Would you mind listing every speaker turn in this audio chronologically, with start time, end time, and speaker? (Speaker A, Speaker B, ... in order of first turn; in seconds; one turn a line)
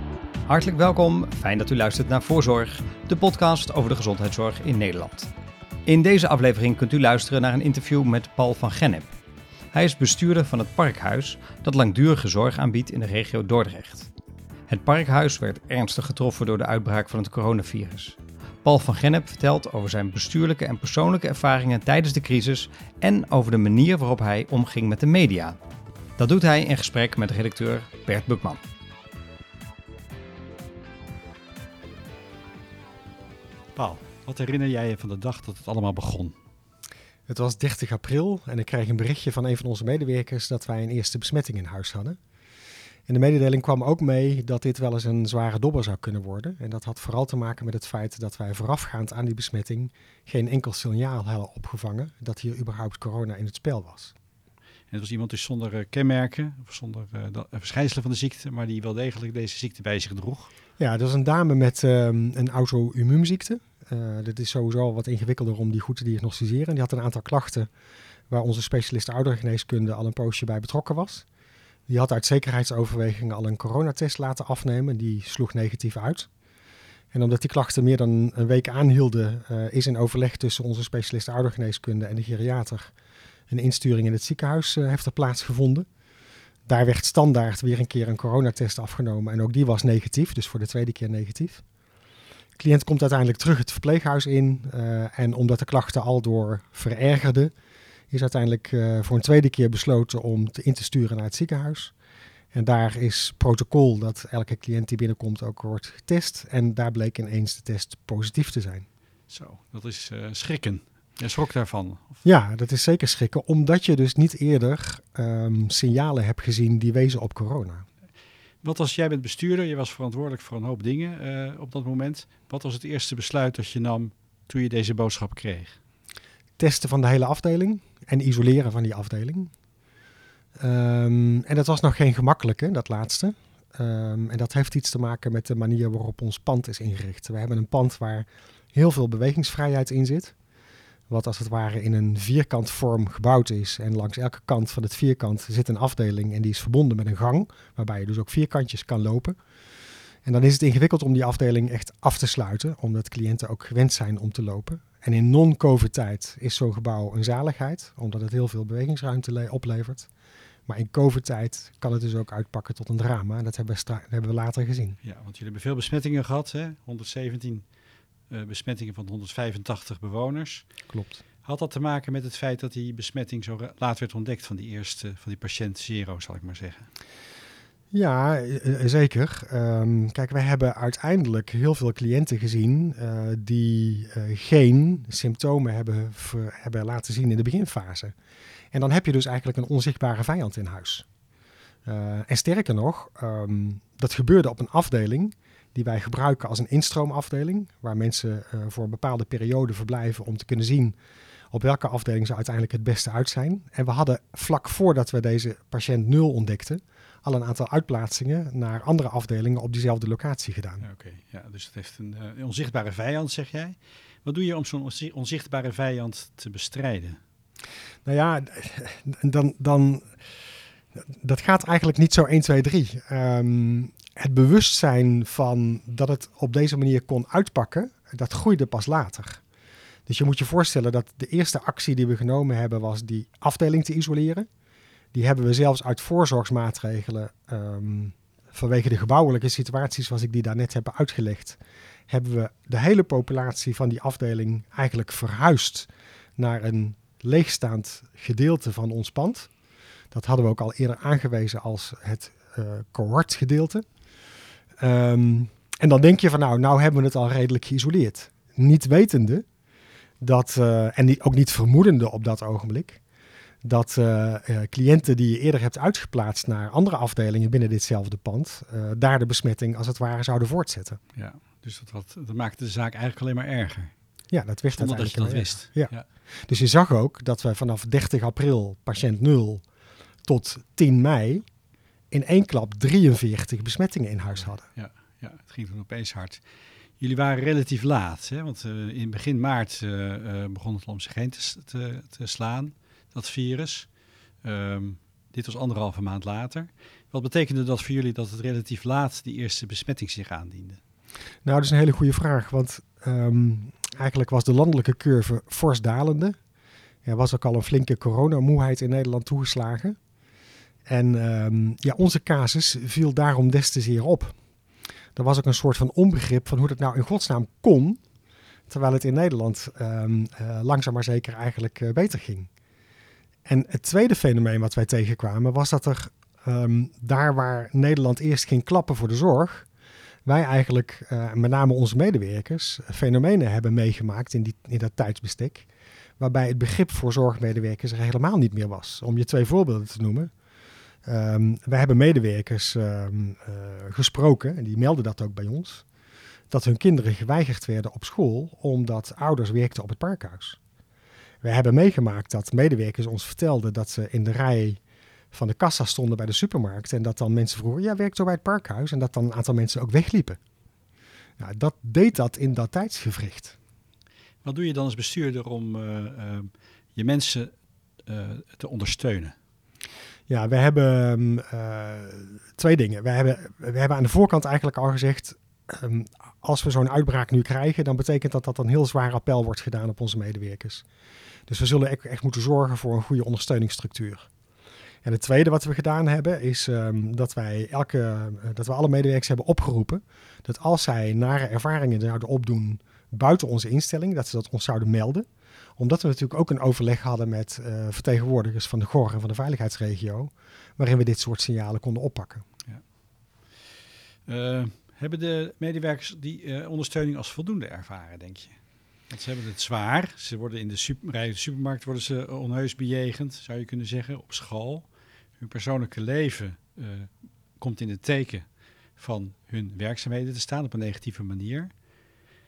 Speaker A: 0.5-5.3
Speaker A: 5.8-9.1
Speaker A: 9.7-14.1
Speaker A: 14.7-25.6
Speaker A: 26.2-28.6
Speaker B: 33.8-36.4
Speaker C: 37.3-42.2
Speaker C: 43.1-54.1
Speaker B: 54.9-60.5
Speaker C: 60.8-67.7
Speaker C: 68.3-71.2
Speaker C: 71.9-76.3
Speaker C: 77.1-82.9
Speaker C: 83.5-85.9
Speaker C: 86.7-91.6
Speaker C: 92.5-97.5
Speaker C: 98.1-101.9
Speaker C: 102.5-108.9
Speaker B: 109.3-112.2
Speaker C: 112.2-117.8
Speaker B: 118.6-125.8
Speaker C: 126.6-129.5
Speaker C: 130.6-140.3
Speaker C: 141.1-149.4
Speaker C: 150.2-160.1
Speaker C: 160.7-165.0
Speaker B: 165.0-167.6
Speaker B: 168.3-170.7
Speaker C: 170.9-171.2
Speaker B: 171.4-176.9
Speaker C: 177.9-188.1
Speaker C: 188.7-191.1
Speaker C: 191.8-200.9
Speaker C: 201.5-210.8
Speaker B: 210.8-217.2
Speaker C: 218.1-220.2
Speaker C: 221.0-229.4
Speaker C: 230.1-234.5
Speaker C: 235.1-249.5
Speaker C: 250.1-253.8
Speaker C: 254.8-259.4
Speaker C: 260.2-263.0
Speaker C: 263.6-271.0
Speaker B: 271.1-273.9
Speaker C: 274.3-275.9
Speaker B: 274.7-276.0
Speaker C: 276.5-279.6
Speaker C: 280.2-281.4
Speaker C: 282.1-284.6
Speaker B: 284.4-286.4
Speaker B: 287.0-293.9
Speaker B: 294.4-300.8
Speaker C: 301.4-306.4
Speaker C: 307.0-310.0
Speaker C: 310.9-314.3
Speaker C: 315.1-318.0
Speaker C: 318.7-322.5
Speaker C: 323.4-329.7
Speaker C: 330.2-335.7
Speaker C: 336.2-340.3
Speaker C: 341.0-345.8
Speaker C: 346.5-350.6
Speaker C: 351.4-354.8
Speaker C: 355.3-360.4
Speaker C: 361.4-363.6
Speaker B: 364.4-367.5
Speaker B: 368.1-369.3
Speaker C: 370.3-380.8
Speaker C: 381.5-384.3
Speaker C: 385.0-402.4
Speaker B: 404.3-408.6
Speaker B: 409.1-414.9
Speaker B: 415.4-418.4
Speaker B: 419.0-421.7